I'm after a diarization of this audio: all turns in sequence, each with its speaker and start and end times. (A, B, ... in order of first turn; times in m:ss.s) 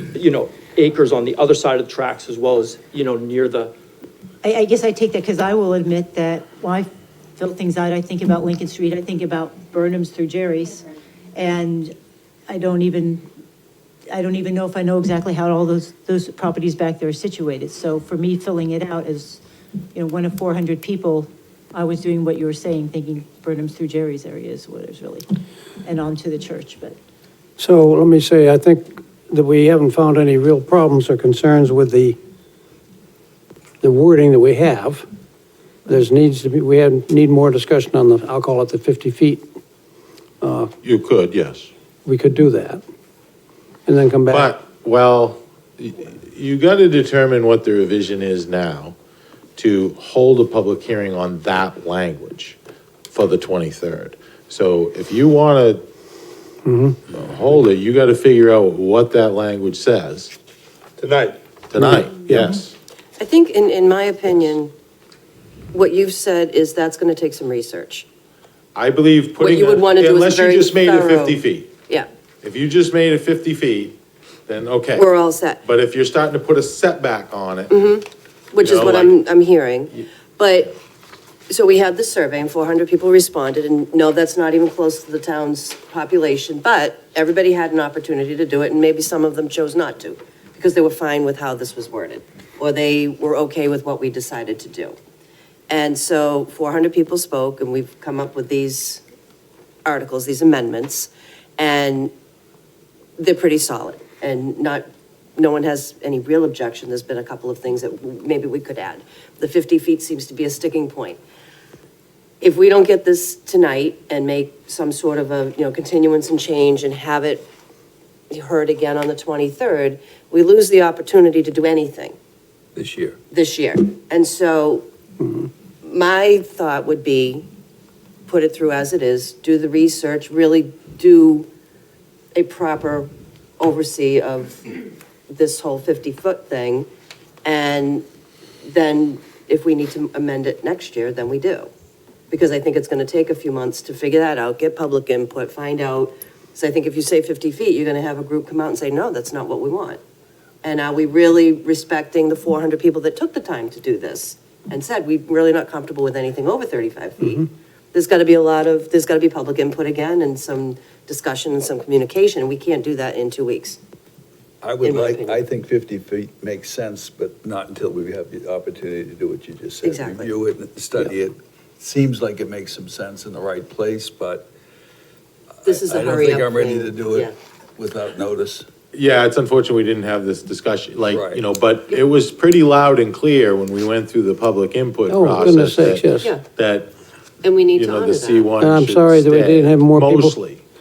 0:00.1-0:03.7 A
0:04.4-0:11.9 B
0:12.5-0:13.2 B
0:14.1-0:19.4 B
0:19.9-0:25.2 B
0:25.8-0:27.0 B
0:27.6-0:32.2 C
0:33.8-0:35.0 C
0:35.8-0:39.4 C
0:40.4-0:40.7 C
0:40.8-0:41.7 D
0:42.0-0:42.8 C
0:43.8-0:44.5 C
0:44.3-0:49.0 D
0:49.6-0:52.6 D
0:53.1-0:55.8 D
0:56.6-0:57.0 C
0:57.1-1:00.3 D
1:01.7-1:02.7 D
1:01.8-1:02.5 C
1:03.2-1:04.7 E
1:05.7-1:08.0 E
1:08.7-1:11.7 D
1:09.4-1:12.1 E
1:12.4-1:17.8 D
1:14.9-1:15.6 E
1:17.7-1:20.8 E
1:18.6-1:19.2 D
1:21.5-1:35.0 E
1:35.7-1:39.0 E
1:39.8-1:42.1 E
1:43.2-1:44.8 E
1:45.4-1:51.2 E
1:52.4-1:57.5 E
1:58.3-2:02.2 E
2:02.8-2:03.2 F
2:03.3-2:04.8 E
2:05.8-2:07.4 E
2:08.3-2:11.5 E
2:12.3-2:16.9 E
2:17.4-2:18.0 E
2:18.6-2:21.7 E
2:22.3-2:30.0 E
2:30.6-2:43.8 E
2:44.6-2:54.5 F
2:44.8-2:45.4 E
2:49.8-2:50.3 E
2:55.6-2:57.3 E
2:55.6-2:58.7 F
2:58.9-3:06.9 D
3:01.1-3:01.4 F
3:05.1-3:06.4 C
3:07.4-3:08.6 E
3:07.7-3:10.6 D
3:08.6-3:10.4 C